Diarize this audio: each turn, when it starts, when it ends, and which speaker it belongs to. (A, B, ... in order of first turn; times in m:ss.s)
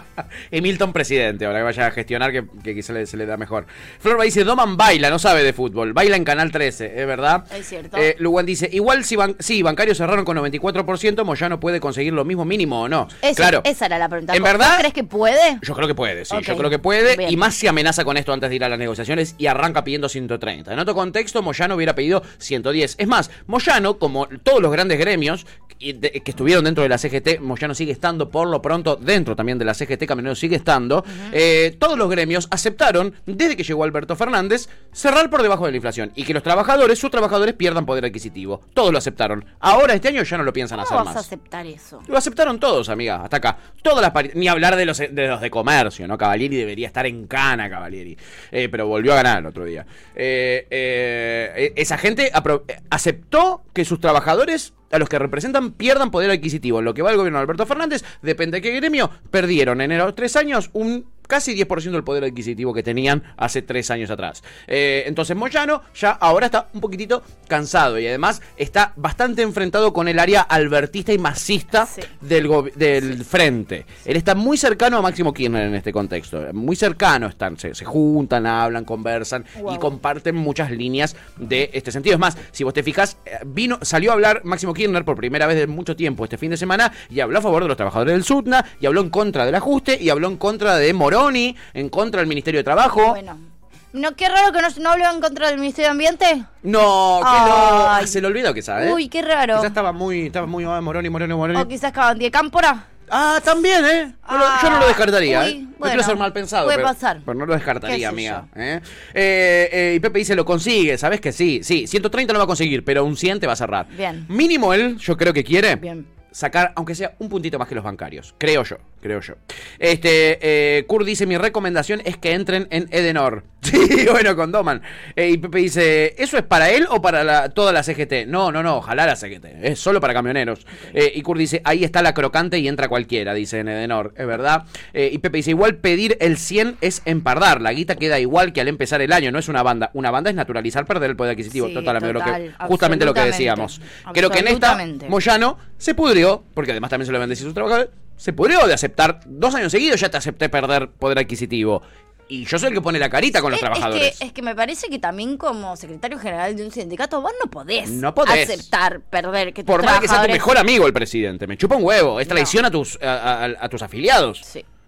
0:00.5-0:13.7 A
0:07.5-0:08.1 B
0:13.2-0:15.6 B
0:14.3-0:14.9 A
0:15.6-0:41.3 A
0:16.3-0:17.4 B
0:40.7-0:42.1 B
0:42.1-1:33.2 A
1:11.8-1:12.1 B
1:19.6-1:19.9 B
1:33.0-1:36.5 B
1:36.6-1:39.0 A
1:37.2-1:38.2 B
1:38.8-1:39.7 B
1:39.5-1:41.7 A
1:41.5-1:42.9 B
1:43.1-2:34.2 A
1:44.3-1:47.2 B
1:47.8-1:48.5 B
1:53.9-1:54.3 B
1:55.8-1:56.1 B
2:21.5-2:25.1 B
2:33.5-2:40.5 B
2:37.8-2:38.7 A
2:39.7-2:44.4 A
2:42.3-2:42.6 B